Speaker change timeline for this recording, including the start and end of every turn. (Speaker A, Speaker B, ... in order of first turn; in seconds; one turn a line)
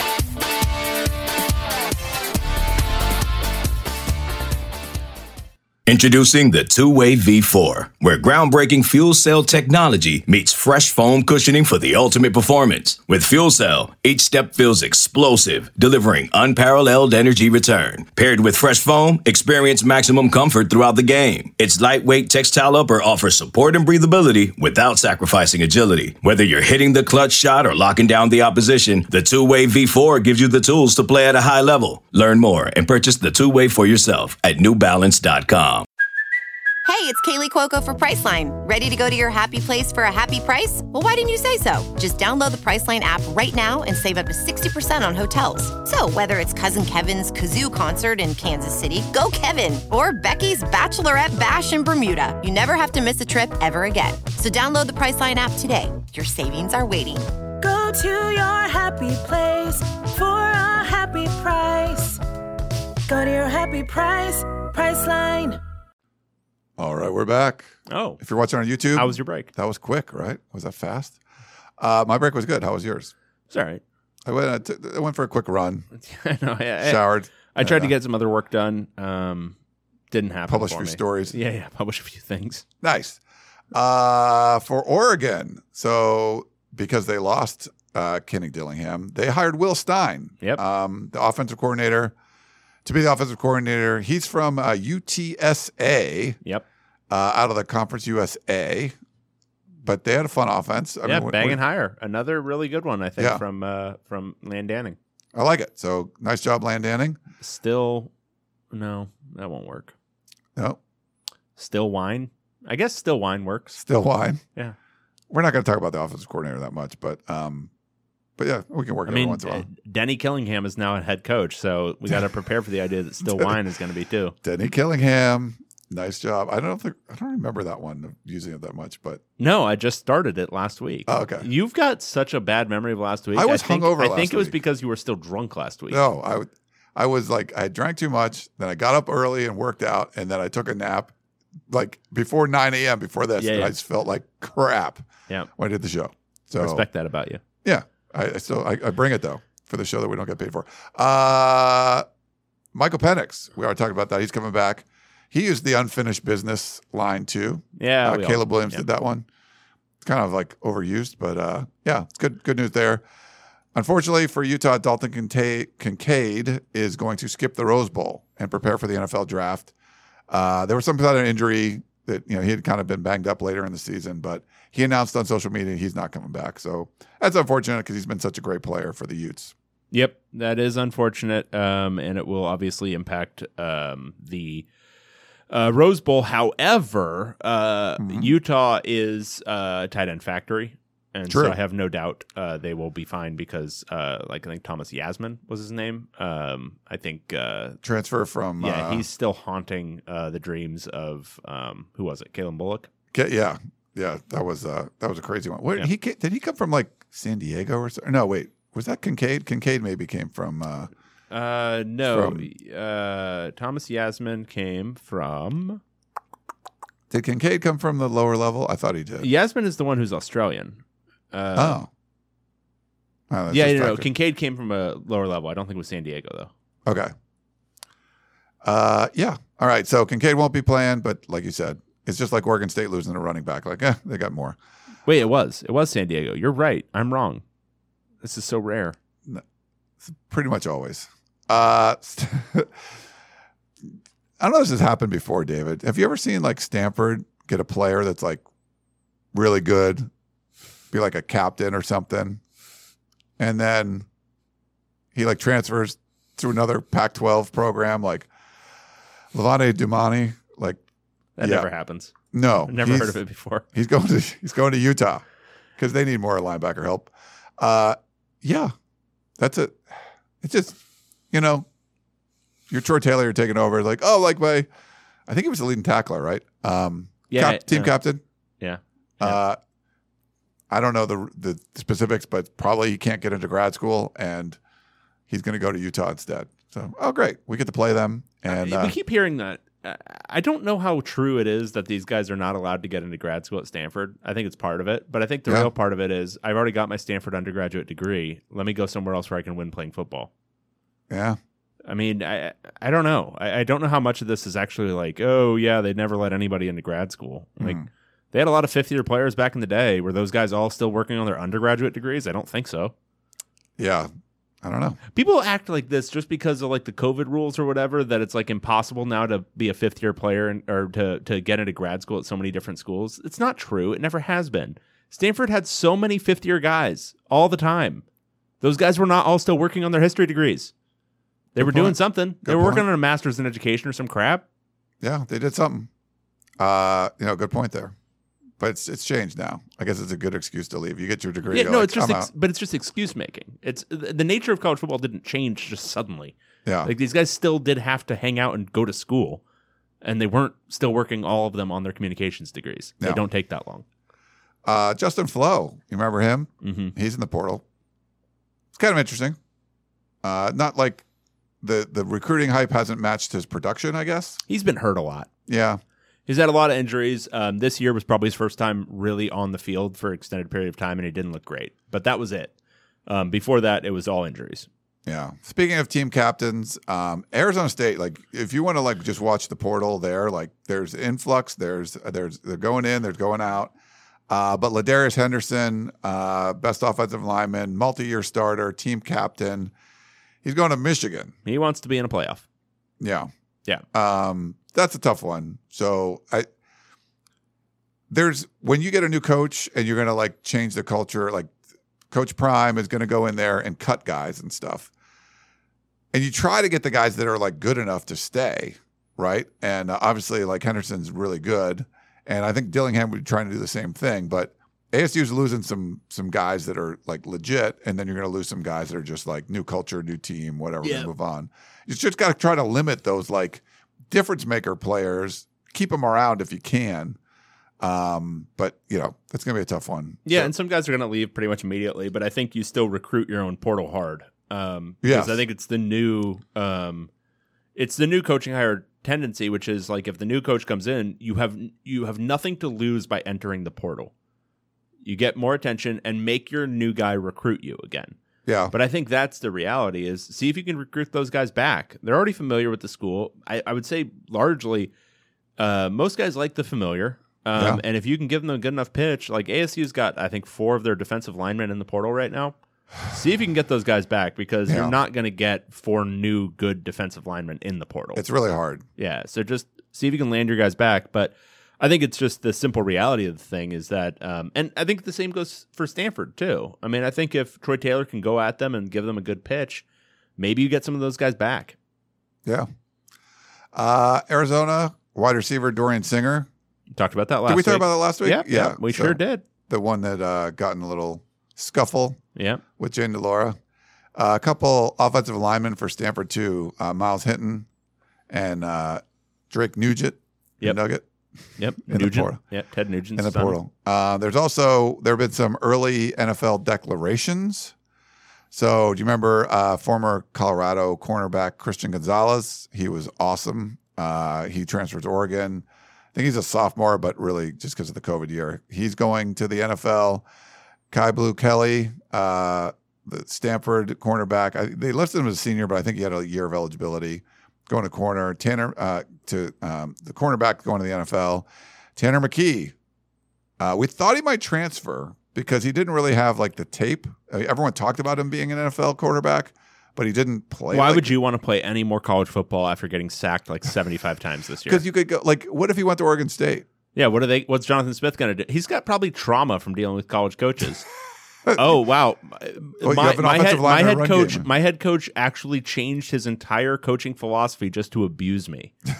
Speaker A: 5.9-35.9
Speaker B: 36.9-57.3
Speaker C: 57.6-62.2
Speaker C: 63.1-65.6
Speaker D: 66.8-71.2
Speaker E: 67.9-68.2
Speaker E: 68.9-69.5
Speaker D: 71.8-73.1
Speaker E: 73.5-73.8
Speaker D: 74.2-75.9
Speaker E: 76.0-79.5
Speaker D: 76.8-77.9
Speaker E: 80.1-82.6
Speaker D: 80.5-81.3
Speaker D: 82.8-83.2
Speaker D: 83.7-92.1
Speaker D: 92.8-96.4
Speaker D: 97.1-99.0
Speaker D: 99.8-101.6
Speaker E: 101.0-105.0
Speaker D: 103.2-103.4
Speaker D: 105.3-107.2
Speaker E: 107.4-108.1
Speaker E: 108.7-109.9
Speaker E: 111.6-113.8
Speaker D: 113.8-114.4
Speaker D: 115.3-117.7
Speaker D: 118.4-119.7
Speaker E: 119.1-124.3
Speaker D: 123.2-123.5
Speaker D: 124.4-129.2
Speaker E: 129.4-136.0
Speaker D: 131.1-131.5
Speaker D: 133.3-134.5
Speaker D: 135.9-141.1
Speaker D: 141.7-146.8
Speaker E: 143.4-143.7
Speaker E: 146.6-147.4
Speaker D: 147.6-152.1
Speaker D: 152.7-159.2
Speaker E: 157.8-158.8
Speaker D: 160.0-163.0
Speaker D: 163.7-169.7
Speaker D: 170.3-179.5
Speaker E: 179.9-184.7
Speaker E: 185.5-197.8
Speaker D: 188.0-188.3
Speaker D: 191.3-191.6
Speaker D: 197.8-199.0
Speaker E: 198.6-202.9
Speaker D: 203.1-210.9
Speaker E: 211.3-215.8
Speaker D: 212.1-212.5
Speaker D: 217.1-219.3
Speaker E: 219.2-220.8
Speaker E: 221.3-221.8
Speaker D: 221.6-221.9
Speaker D: 223.3-224.1
Speaker E: 223.5-226.5
Speaker D: 226.8-227.1
Speaker D: 228.6-234.6
Speaker E: 235.1-237.4
Speaker E: 238.2-238.9
Speaker D: 240.0-242.9
Speaker D: 244.4-248.4
Speaker D: 249.3-250.1
Speaker D: 250.9-252.4
Speaker D: 253.4-254.1
Speaker D: 255.1-258.3
Speaker D: 259.3-260.8
Speaker E: 261.4-262.1
Speaker D: 261.4-261.7
Speaker D: 262.3-263.2
Speaker E: 262.7-263.6
Speaker D: 263.7-265.2
Speaker D: 265.8-268.7
Speaker D: 269.4-270.8
Speaker D: 271.3-271.6
Speaker D: 272.7-274.7
Speaker D: 275.3-278.2
Speaker E: 277.3-278.0
Speaker E: 278.6-279.4
Speaker D: 279.2-279.6
Speaker D: 280.7-284.6
Speaker D: 285.3-288.9
Speaker E: 288.5-300.3
Speaker D: 301.1-301.4
Speaker E: 301.9-312.9
Speaker D: 307.6-307.9
Speaker D: 313.8-314.1
Speaker D: 314.6-315.0
Speaker E: 315.1-328.0
Speaker E: 328.6-330.7
Speaker E: 331.5-334.4
Speaker D: 331.6-332.8
Speaker D: 335.0-335.9
Speaker D: 336.6-337.9
Speaker D: 338.6-342.3
Speaker E: 341.5-349.4
Speaker D: 346.6-346.9
Speaker E: 350.0-353.8
Speaker D: 354.6-357.6
Speaker E: 356.6-356.9
Speaker D: 358.7-359.4
Speaker D: 360.2-361.0
Speaker D: 361.6-364.4
Speaker E: 364.5-365.3
Speaker D: 365.5-365.8
Speaker E: 366.3-372.5
Speaker E: 373.1-374.7
Speaker D: 375.1-383.7
Speaker D: 384.3-389.7
Speaker D: 390.4-391.3
Speaker E: 391.4-392.4
Speaker D: 393.0-393.3
Speaker D: 393.9-396.5
Speaker D: 398.1-401.5
Speaker D: 402.1-404.9
Speaker D: 406.1-427.2
Speaker E: 420.8-421.1
Speaker D: 427.8-430.5
Speaker E: 430.2-437.1
Speaker D: 435.0-435.4
Speaker E: 437.7-444.1
Speaker E: 445.0-448.1
Speaker D: 448.5-448.7
Speaker E: 448.7-454.9
Speaker E: 455.6-468.2
Speaker D: 457.5-457.8
Speaker D: 464.7-464.9
Speaker D: 468.1-468.8
Speaker E: 469.0-479.8
Speaker E: 480.4-481.7
Speaker D: 483.7-486.5
Speaker E: 486.9-489.4
Speaker D: 487.5-492.2
Speaker E: 492.4-492.6
Speaker D: 492.8-493.6
Speaker D: 494.1-497.7
Speaker D: 498.3-501.0
Speaker E: 501.6-503.6
Speaker D: 501.9-502.4
Speaker D: 503.1-507.7
Speaker D: 508.5-520.2
Speaker D: 520.9-532.7
Speaker D: 533.6-541.1
Speaker E: 540.7-544.8
Speaker D: 544.7-546.6
Speaker E: 547.0-550.9
Speaker E: 551.5-558.7
Speaker D: 552.8-554.4